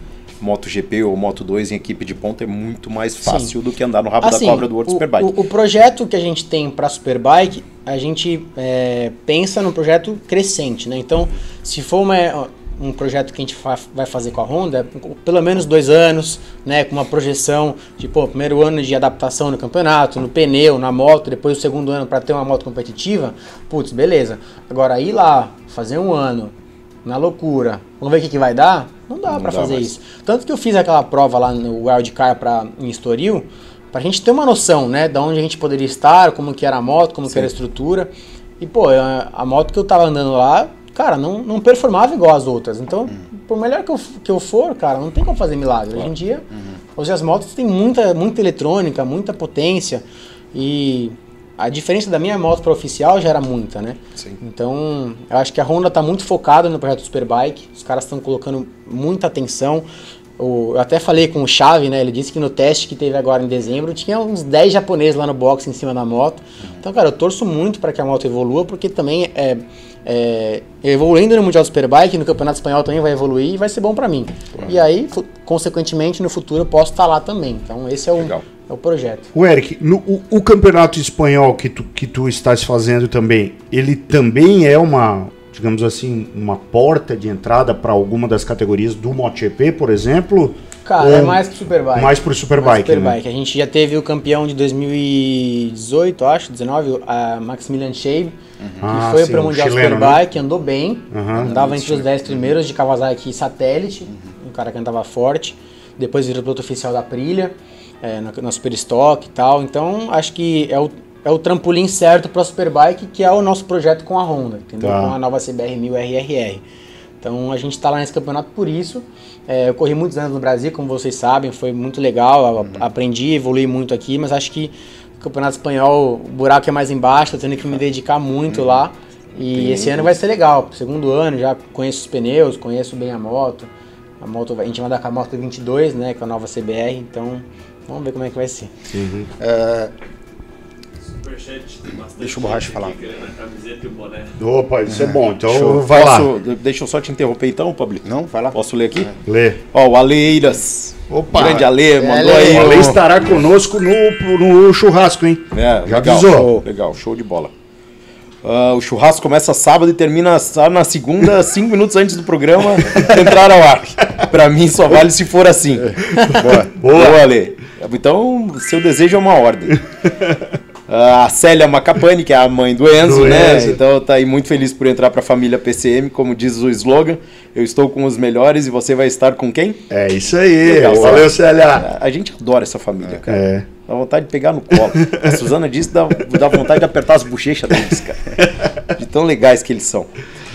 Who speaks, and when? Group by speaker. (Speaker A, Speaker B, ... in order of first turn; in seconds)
Speaker A: 0.4-5.4, 29.3-29.9, 145.5-149.1, 149.7-153.1, 155.5-157.5, 158.4-169.8, 170.9-179.8, 180.6-190.1
Speaker B: 3.2-3.5, 4.2-26.5, 27.1-46.5, 47.0-59.9, 60.4-79.3, 90.8-98.3, 98.9-116.6, 117.2-133.7, 134.2-138.7, 152.0-152.9
Speaker C: 79.3-93.2, 98.8-100.3, 101.1-101.5, 114.8-115.2, 138.9-139.3, 144.4-146.3, 149.2-149.6, 151.1-151.7, 152.2-156.6, 162.9-163.2, 166.1-167.2, 173.0-173.8, 179.9-181.9, 183.3-183.7, 185.0-185.3
Speaker D: 101.4-102.5, 128.5-128.8, 129.6-130.1, 139.4-139.9, 142.2-143.0, 144.9-145.2, 148.0-149.1, 156.3-156.6
Speaker E: 141.0-144.3